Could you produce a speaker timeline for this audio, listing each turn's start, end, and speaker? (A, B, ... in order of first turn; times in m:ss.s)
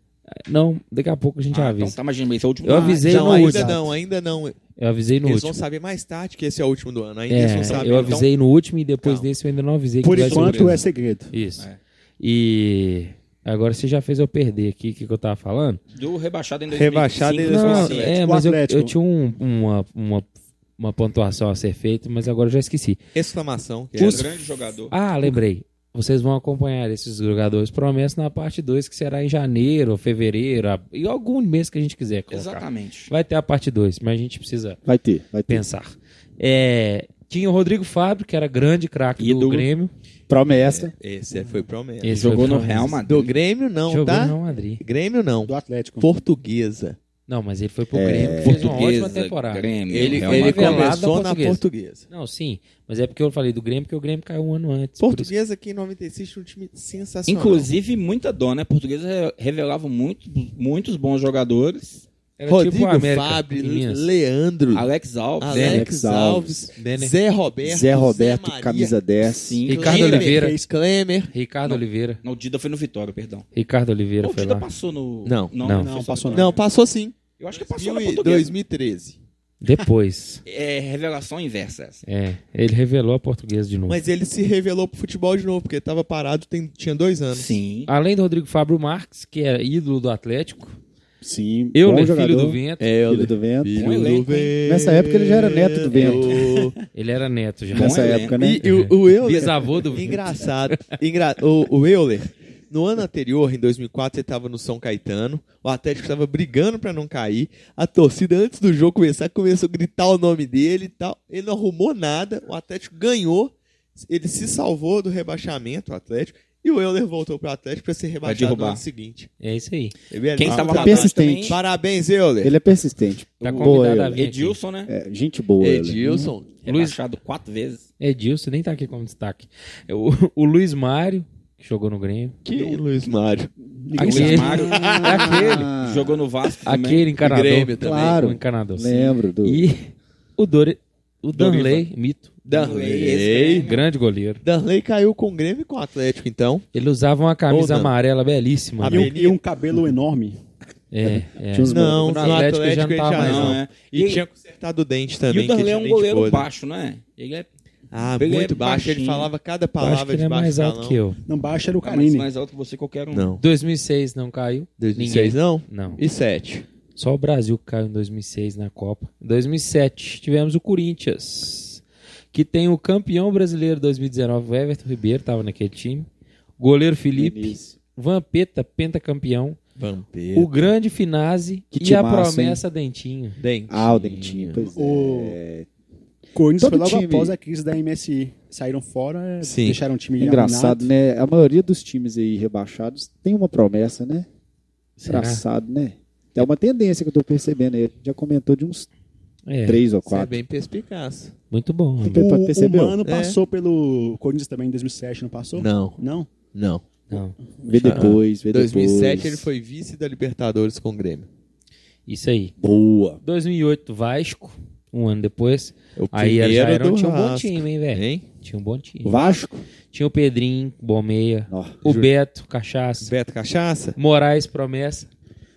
0:00.3-0:02.0 A
0:01.5-0:03.5 B
0:02.6-0:03.8 A
0:02.7-0:03.8 C
0:03.0-0:04.6 D
0:04.8-0:05.6 A
0:05.2-0:08.3 D
0:07.3-0:11.7 A
0:07.6-0:08.3 B
0:09.0-0:09.3 D
0:10.0-0:11.3 C
0:10.2-0:10.8 B
0:12.2-0:15.8 A
0:16.0-0:18.2 B
0:16.7-0:18.1 D
0:17.5-0:23.0 A
0:18.1-0:19.0 C
0:23.2-0:24.3 D
0:24.0-0:24.3 A
0:24.0-0:24.9 B
0:24.9-0:34.8 A
0:32.3-0:33.1 B
0:34.8-0:35.7 E
0:35.5-0:39.9 A
0:39.2-0:39.6 B
0:40.3-0:40.9 E
0:41.0-0:42.3 D
0:42.0-0:43.0 A
0:42.1-0:43.3 B
0:43.0-0:47.0 D
0:43.9-0:44.8 A
0:45.5-0:46.1 C
0:47.3-0:55.3 A
0:47.9-0:48.8 E
0:48.4-0:51.0 B
0:49.9-0:52.1 D
0:55.0-0:57.7 D
0:57.3-1:02.0 B
1:02.4-1:04.1 A
1:02.5-1:04.9 D
1:04.7-1:05.9 B
1:05.4-1:09.0 D
1:05.5-1:06.7 E
1:06.8-1:07.2 A
1:07.6-1:09.6 E
1:09.3-1:10.1 B
1:09.7-1:10.6 A
1:09.7-1:11.3 D
1:09.9-1:10.7 C
1:11.3-1:12.2 A
1:11.7-1:13.5 B
1:13.5-1:14.7 A
1:14.2-1:16.6 B
1:15.3-1:15.6 D
1:15.6-1:15.9 A
1:15.8-1:16.6 C
1:16.3-1:19.2 D
1:17.4-1:18.6 B
1:19.6-1:20.4 A
1:20.5-1:22.0 B
1:22.1-1:24.0 A
1:23.9-1:27.6 D
1:27.3-1:27.9 B
1:27.9-1:30.8 A
1:31.2-1:33.9 E
1:31.7-1:32.9 A
1:32.8-1:36.8 D
1:33.8-1:34.6 B
1:34.6-1:36.4 E
1:36.9-1:40.8 A
1:37.7-1:38.6 E
1:37.8-1:38.4 B
1:38.4-1:59.3 D
1:58.2-1:58.8 B
1:59.4-2:00.0 A
2:00.1-2:02.6 D
2:00.4-2:01.6 B
2:00.5-2:01.6 E
2:02.4-2:04.3 E
2:03.4-2:04.6 A
2:03.4-2:04.9 B
2:04.9-2:06.3 E
2:05.6-2:06.5 D
2:06.6-2:07.9 B
2:06.7-2:07.0 A
2:08.0-2:12.4 A
2:12.4-2:13.5 D
2:13.8-2:14.8 C
2:14.0-2:15.7 A
2:14.0-2:17.1 B
2:14.1-2:15.3 D
2:14.7-2:16.2 E
2:16.6-2:22.3 A
2:17.2-2:18.2 D
2:17.8-2:19.7 E
2:21.3-2:21.9 D
2:22.4-2:23.7 D
2:22.5-2:23.8 B
2:23.6-2:24.4 A
2:24.4-2:26.7 D
2:26.7-2:29.1 A
2:27.5-2:27.9 D
2:28.8-2:29.4 D
2:28.9-2:30.4 C
2:30.9-2:33.6 A
2:31.0-2:32.4 E
2:31.7-2:36.5 D
2:33.2-2:34.2 B
2:35.3-2:37.5 B
2:37.9-2:41.0 D
2:38.2-2:39.3 B
2:39.8-2:41.2 A
2:41.3-2:42.3 C
2:41.8-2:43.4 B
2:43.1-2:43.4 D
2:43.4-2:46.0 A
2:44.8-2:46.7 D
2:47.0-2:51.8 A
2:52.3-2:56.1 A
2:56.6-2:59.6 A
2:57.1-2:57.8 E
2:59.8-3:00.7 D
3:00.3-3:03.4 A
3:01.7-3:02.6 E
3:03.4-3:04.7 D
3:03.7-3:05.7 E
3:04.7-3:05.4 C
3:06.4-3:10.9 C
3:06.6-3:07.3 E
3:09.4-3:09.8 D
3:10.2-3:14.3 E
3:15.0-3:15.4 A
3:15.1-3:18.9 E
3:19.5-3:19.9 A
3:19.7-3:20.4 E
3:20.1-3:21.4 D
3:21.5-3:22.3 A
3:22.0-3:23.0 E
3:22.1-3:26.3 C
3:23.0-3:23.4 D
3:25.6-3:26.0 D
3:26.5-3:26.8 D
3:27.1-3:27.4 A
3:27.6-3:29.5 E
3:27.7-3:31.3 D
3:32.1-3:32.5 A
3:32.6-3:33.2 E
3:33.2-3:39.2 A
3:36.0-3:38.3 D
3:39.0-3:39.6 E
3:39.9-3:43.1 A
3:41.5-3:41.8 E
3:41.9-3:42.1 D
3:43.0-3:44.0 D
3:44.0-3:45.1 A